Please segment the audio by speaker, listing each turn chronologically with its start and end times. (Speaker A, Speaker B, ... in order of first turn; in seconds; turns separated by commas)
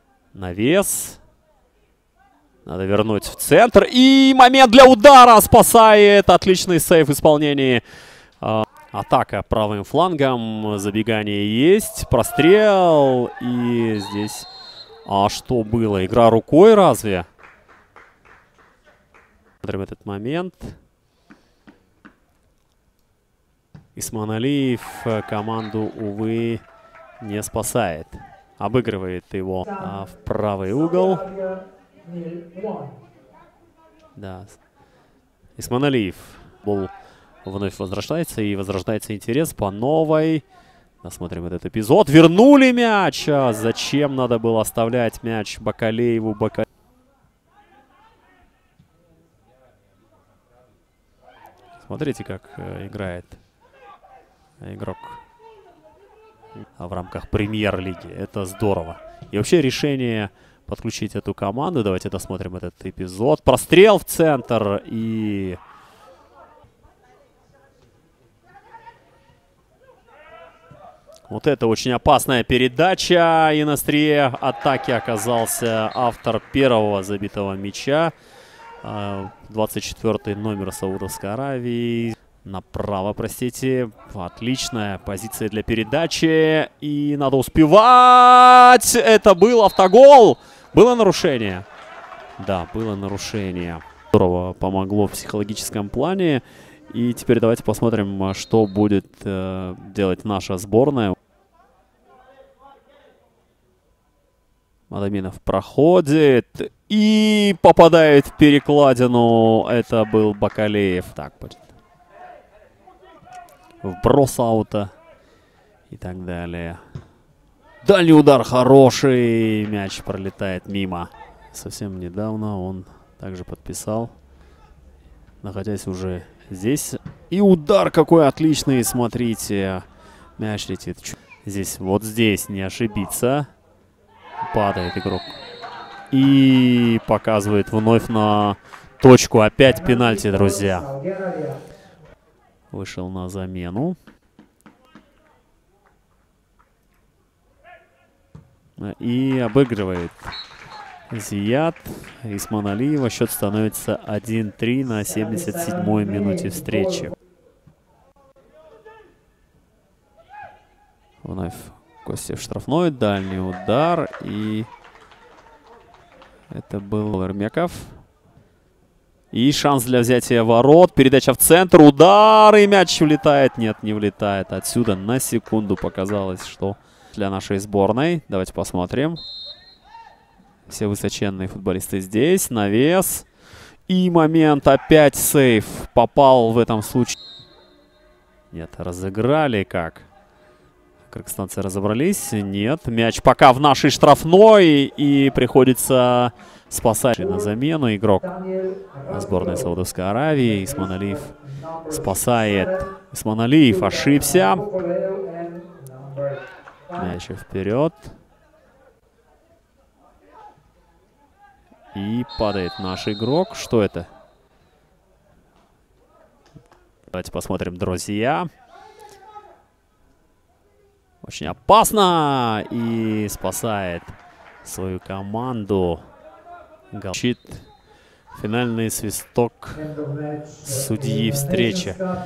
Speaker A: 0.3-1.2, Speaker A: 2.6-7.8, Speaker A: 8.4-14.5, Speaker A: 15.1-17.3, Speaker A: 19.6-20.8, Speaker A: 23.9-26.6, Speaker A: 27.2-31.3, Speaker A: 34.2-34.6, Speaker A: 35.6-36.9, Speaker A: 37.4-40.4, Speaker A: 41.0-46.6, Speaker A: 51.8-53.4, Speaker A: 54.6-55.2, Speaker A: 56.8-65.6, Speaker A: 71.3-78.1, Speaker A: 78.8-91.7, Speaker A: 92.4-101.2, Speaker A: 104.9-111.7, Speaker A: 113.8-114.9, Speaker A: 115.9-116.8, Speaker A: 117.8-124.1, Speaker A: 125.4-129.8, Speaker A: 130.4-133.5, Speaker A: 134.4-135.4, Speaker A: 136.1-140.9, Speaker A: 142.7-144.0, Speaker A: 148.8-150.3, Speaker A: 151.1-157.1, Speaker A: 161.2-164.7, Speaker A: 166.5-168.0, Speaker A: 169.3-179.2, Speaker A: 180.7-183.3, Speaker A: 183.9-187.2, Speaker A: 188.5-190.1, Speaker A: 191.1-198.4, Speaker A: 199.1-201.3, Speaker A: 201.9-204.7, Speaker A: 206.9-208.1, Speaker A: 211.9-214.1, Speaker A: 217.1-218.5, Speaker A: 221.2-226.1, Speaker A: 226.9-227.7, Speaker A: 228.3-229.9, Speaker A: 230.6-232.1